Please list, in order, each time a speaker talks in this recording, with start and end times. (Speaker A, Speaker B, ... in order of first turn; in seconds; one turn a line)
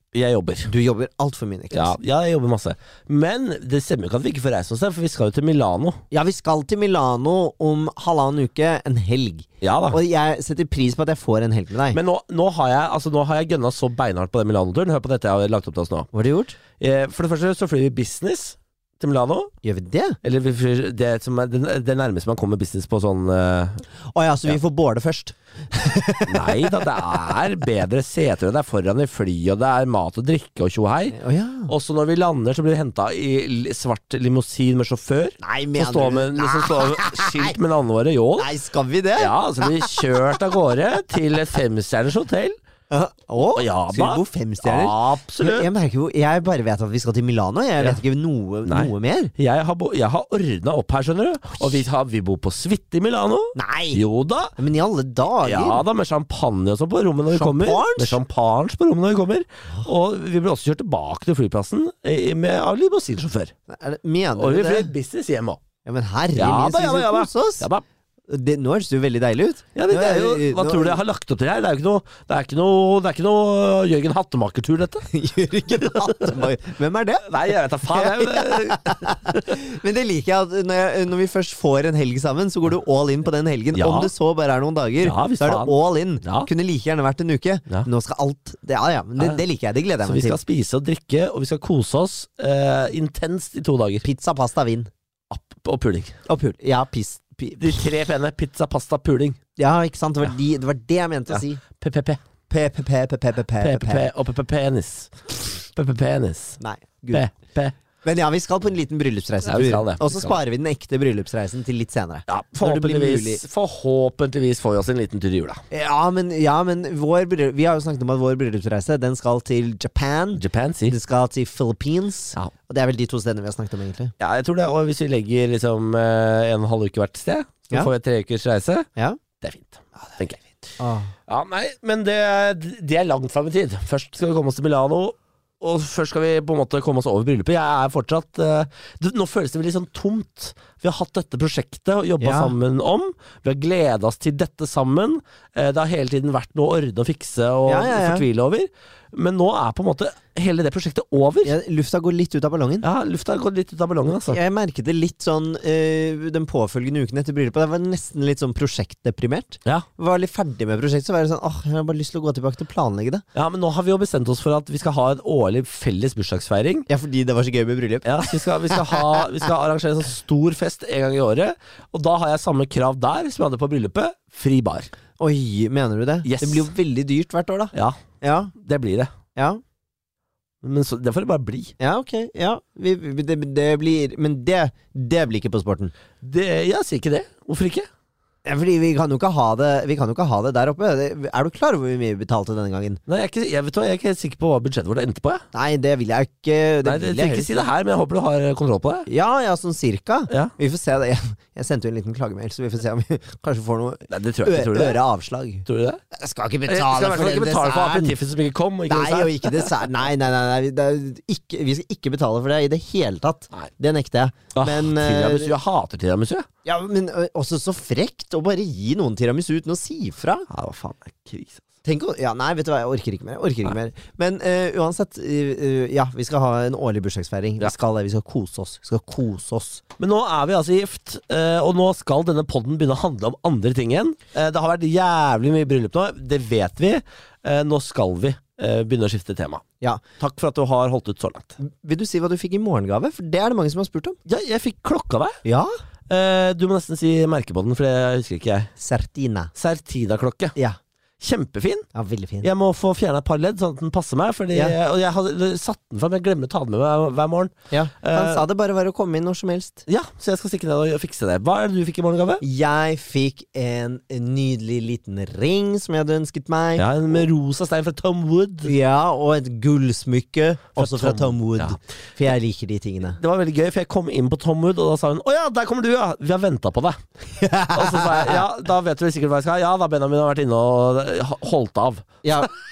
Speaker A: 0.1-0.7
Speaker B: 0.7-2.0
Speaker A: 1.7-6.0
Speaker B: 6.1-12.0
Speaker A: 9.6-10.0
Speaker A: 11.9-16.1
Speaker B: 16.1-16.6
Speaker A: 16.8-19.5
Speaker B: 19.6-20.2
Speaker A: 20.2-23.8
Speaker B: 24.1-26.9
Speaker A: 26.3-31.2
Speaker B: 31.1-31.7
Speaker A: 31.7-38.5
Speaker B: 35.4-37.6
Speaker B: 38.4-40.3
Speaker A: 39.2-42.6
Speaker B: 42.9-49.3
Speaker A: 43.5-45.7
Speaker A: 48.7-54.5
Speaker B: 53.5-54.0
Speaker B: 54.6-55.8
Speaker A: 55.4-63.5
Speaker B: 57.3-58.2
Speaker B: 63.7-64.9
Speaker A: 64.4-65.6
Speaker B: 65.8-67.7
Speaker A: 66.3-67.8
Speaker B: 68.3-71.0
Speaker A: 69.8-75.1
Speaker B: 75.1-77.3
Speaker A: 76.1-76.4
Speaker A: 77.2-79.5
Speaker B: 77.9-90.4
Speaker A: 83.7-84.1
Speaker A: 85.0-86.5
Speaker A: 90.0-94.0
Speaker B: 94.0-94.9
Speaker A: 95.3-96.2
Speaker B: 96.3-97.9
Speaker A: 97.6-99.4
Speaker B: 99.6-101.6
Speaker A: 101.3-102.2
Speaker B: 102.5-104.1
Speaker A: 103.6-106.6
Speaker B: 106.6-107.3
Speaker A: 107.1-107.8
Speaker B: 108.0-113.4
Speaker A: 109.5-110.4
Speaker A: 112.3-115.6
Speaker B: 115.7-124.1
Speaker A: 120.4-121.0
Speaker A: 124.2-128.9
Speaker A: 129.4-130.5
Speaker B: 130.8-131.1
Speaker A: 131.3-151.5
Speaker B: 142.2-142.5
Speaker B: 147.7-148.3
Speaker B: 151.4-152.9
Speaker A: 152.8-154.4
Speaker B: 154.3-163.2
Speaker A: 163.3-166.9
Speaker B: 166.9-169.3
Speaker A: 168.1-174.9
Speaker B: 175.2-178.5
Speaker A: 176.2-176.7
Speaker A: 177.7-178.0
Speaker A: 178.6-179.1
Speaker B: 179.3-179.6
Speaker A: 180.6-181.7
Speaker B: 181.8-185.9
Speaker A: 186.2-187.9
Speaker B: 188.4-193.0
Speaker A: 193.1-195.4
Speaker B: 195.5-197.6
Speaker A: 196.8-199.1
Speaker B: 199.1-208.2
Speaker A: 204.1-205.0
Speaker A: 205.7-206.0
Speaker A: 206.7-209.8
Speaker B: 208.9-215.6
Speaker A: 214.6-216.5
Speaker B: 216.7-220.5
Speaker A: 220.5-221.6
Speaker B: 221.8-229.8
Speaker A: 230.0-239.6
Speaker A: 240.2-241.6
Speaker B: 241.6-244.2
Speaker A: 244.3-245.4
Speaker B: 245.4-245.7
Speaker A: 246.1-248.7
Speaker B: 248.8-249.5
Speaker A: 249.6-250.6
Speaker A: 251.2-251.9
Speaker B: 251.9-252.5
Speaker A: 252.4-258.4
Speaker B: 257.7-259.9
Speaker A: 259.9-262.4
Speaker B: 262.4-266.9
Speaker A: 266.8-268.7
Speaker B: 268.6-273.2
Speaker A: 270.8-271.8
Speaker A: 273.0-277.0
Speaker B: 277.3-278.4
Speaker A: 277.7-282.1
Speaker B: 282.2-282.5